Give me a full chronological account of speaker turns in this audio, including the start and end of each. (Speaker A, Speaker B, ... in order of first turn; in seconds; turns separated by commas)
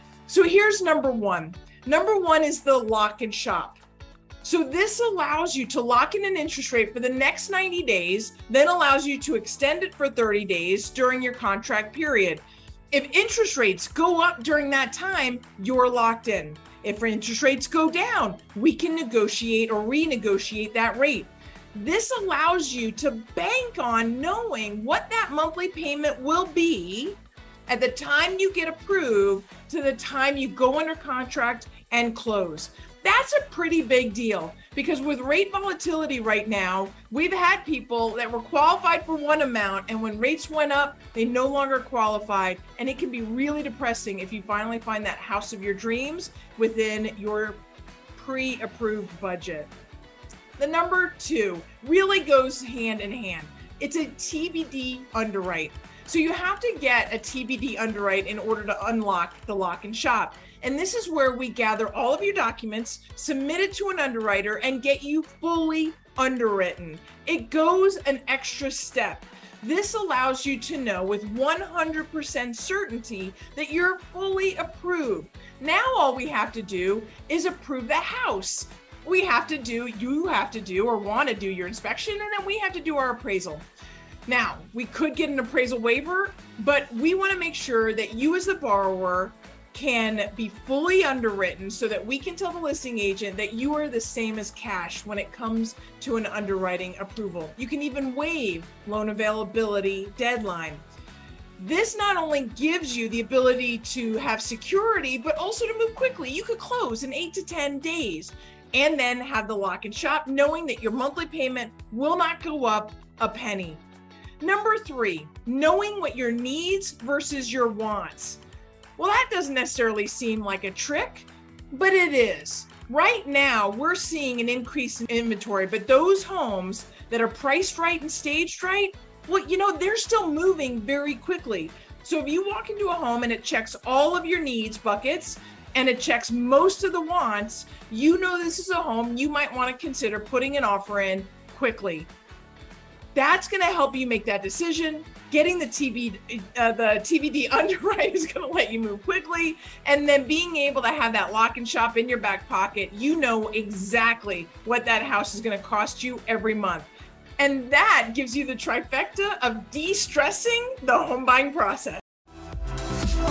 Speaker A: 0.3-3.8, Speaker A: 4.4-47.6, Speaker A: 48.1-49.7, Speaker A: 50.6-83.7, Speaker A: 84.3-100.8, Speaker A: 101.6-113.8, Speaker A: 114.4-118.4, Speaker A: 119.0-142.1, Speaker A: 143.1-162.0